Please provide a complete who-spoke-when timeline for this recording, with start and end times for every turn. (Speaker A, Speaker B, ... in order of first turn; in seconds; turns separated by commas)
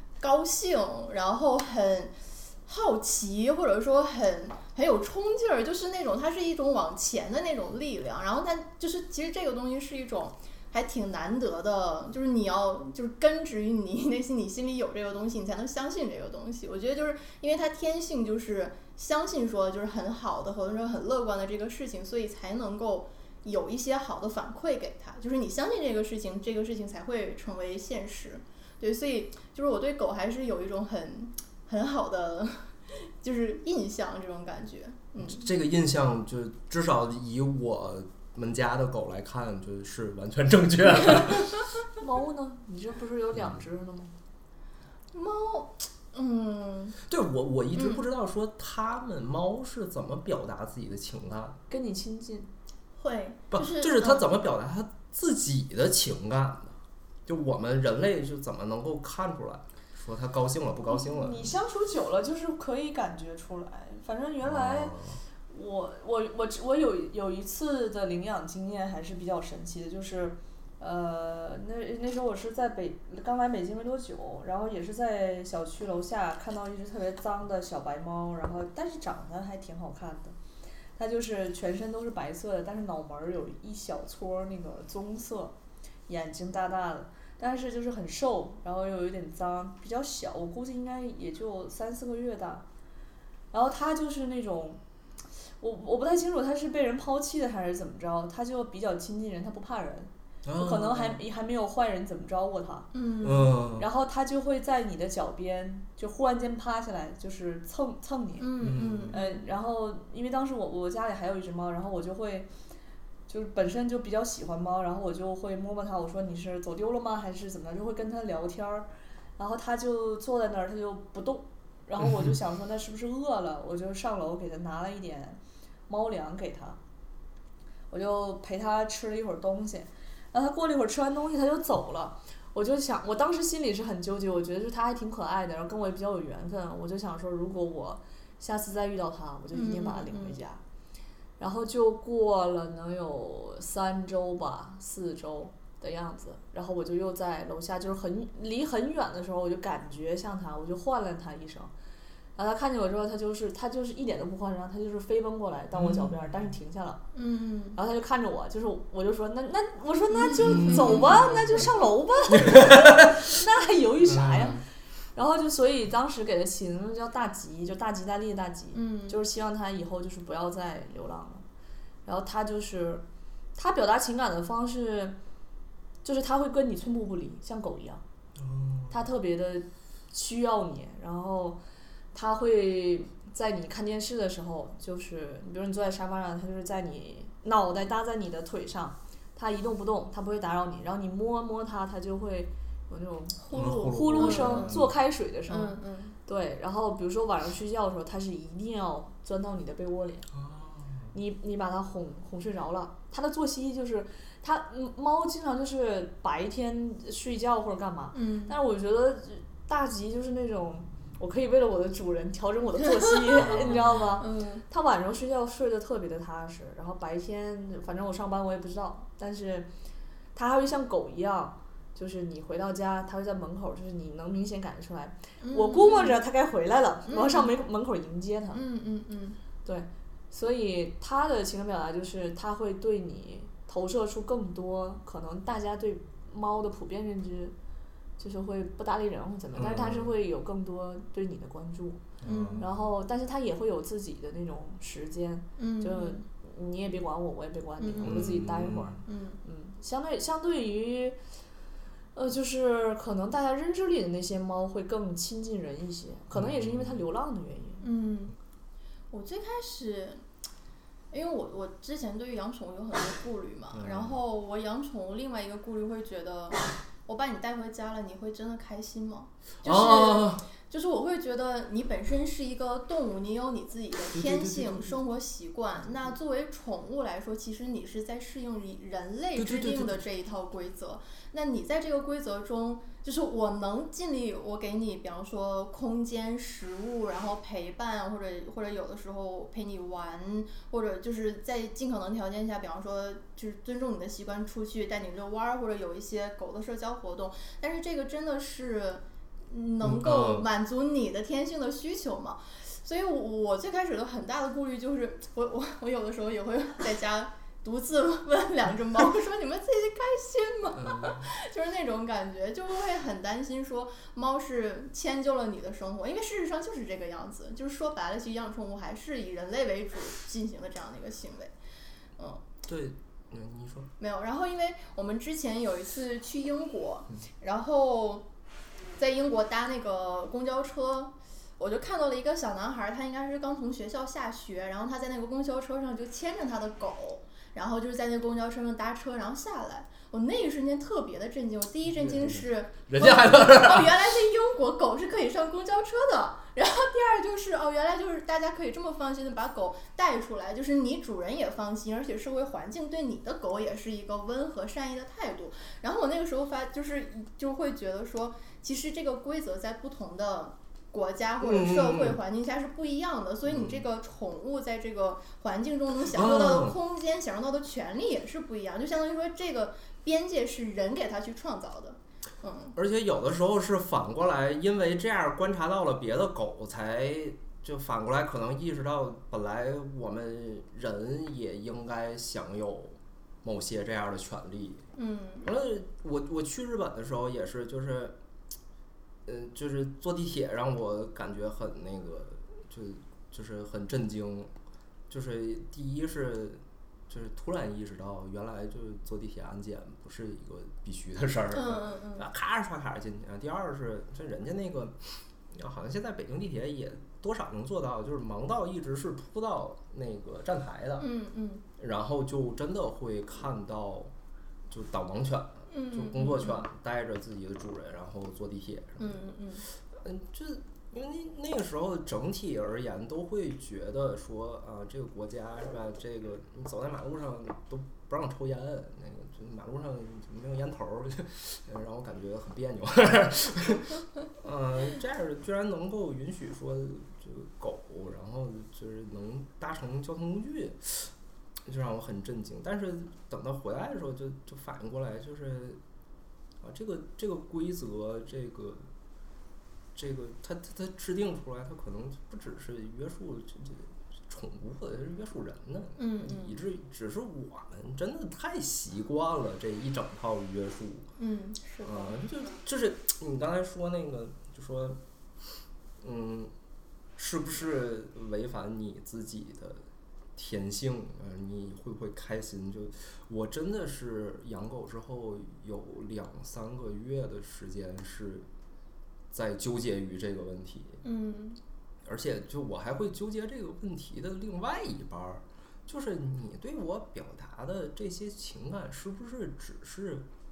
Speaker A: 0.2-35.5, Speaker B: 35.2-41.6, Speaker C: 42.0-44.1, Speaker B: 43.4-43.6, Speaker A: 45.1-47.0, Speaker B: 47.1-51.6, Speaker A: 47.7-48.0, Speaker C: 51.7-52.5, Speaker A: 53.0-54.2, Speaker B: 53.5-61.5, Speaker C: 60.9-65.0, Speaker B: 64.4-65.2, Speaker C: 65.5-80.3, Speaker C: 81.0-85.6, Speaker C: 86.1-92.7, Speaker C: 93.5-94.8, Speaker C: 95.6-102.9, Speaker B: 100.4-101.2, Speaker A: 102.9-103.5, Speaker B: 103.2-103.9, Speaker C: 103.8-112.5, Speaker A: 108.4-109.5, Speaker B: 108.6-109.2, Speaker C: 113.3-126.8, Speaker C: 127.9-140.6, Speaker A: 139.5-140.4, Speaker C: 141.4-151.7, Speaker C: 152.4-157.0, Speaker B: 155.7-156.5, Speaker A: 157.1-157.8, Speaker C: 157.8-164.6, Speaker A: 160.2-161.4, Speaker B: 160.4-161.4, Speaker B: 162.4-163.2, Speaker B: 164.0-164.6, Speaker C: 165.2-171.4, Speaker A: 168.7-169.2, Speaker C: 172.1-175.2, Speaker C: 176.0-178.0, Speaker B: 178.4-179.0, Speaker C: 178.9-181.6, Speaker C: 182.1-200.3, Speaker A: 193.4-194.8, Speaker B: 193.5-194.9, Speaker A: 195.5-196.2, Speaker B: 200.3-201.1, Speaker C: 201.1-219.7, Speaker A: 208.1-208.6, Speaker B: 213.4-214.2, Speaker A: 214.2-214.6, Speaker C: 220.3-228.6, Speaker A: 225.4-226.2, Speaker A: 227.1-227.5, Speaker A: 228.5-229.4, Speaker C: 229.7-237.6, Speaker C: 238.2-242.1, Speaker B: 239.6-240.1, Speaker B: 242.2-242.8, Speaker A: 242.2-242.6, Speaker C: 242.6-251.2, Speaker A: 245.6-246.2, Speaker A: 247.8-248.4, Speaker B: 248.0-249.0, Speaker A: 249.1-249.4, Speaker C: 252.2-257.9, Speaker B: 256.3-257.0, Speaker A: 257.8-258.4, Speaker A: 259.1-260.2, Speaker A: 261.1-321.5, Speaker B: 263.7-264.2, Speaker B: 269.6-270.5, Speaker B: 274.1-275.0, Speaker B: 279.4-280.0, Speaker B: 299.8-300.5, Speaker B: 310.8-311.3, Speaker A: 322.2-322.4, Speaker B: 322.6-323.9, Speaker A: 324.0-328.3, Speaker A: 329.0-372.8, Speaker B: 341.9-344.0, Speaker B: 361.4-362.2, Speaker B: 363.5-363.8, Speaker B: 366.1-366.8, Speaker B: 372.8-384.8, Speaker A: 384.9-385.5, Speaker B: 385.4-388.2, Speaker B: 389.2-394.5, Speaker B: 395.1-405.0, Speaker A: 401.5-402.3, Speaker B: 405.5-411.1, Speaker A: 411.0-411.6, Speaker B: 411.8-414.1, Speaker B: 414.7-419.2, Speaker A: 415.7-416.6, Speaker A: 419.0-419.7, Speaker B: 419.9-441.1, Speaker B: 441.6-445.8, Speaker B: 446.6-448.9, Speaker B: 449.9-461.1, Speaker A: 456.0-456.6, Speaker A: 461.2-462.1, Speaker B: 461.8-465.0, Speaker B: 466.0-466.5, Speaker B: 467.2-469.9, Speaker B: 470.4-478.5, Speaker B: 479.3-481.0, Speaker A: 481.0-481.6, Speaker B: 482.1-490.2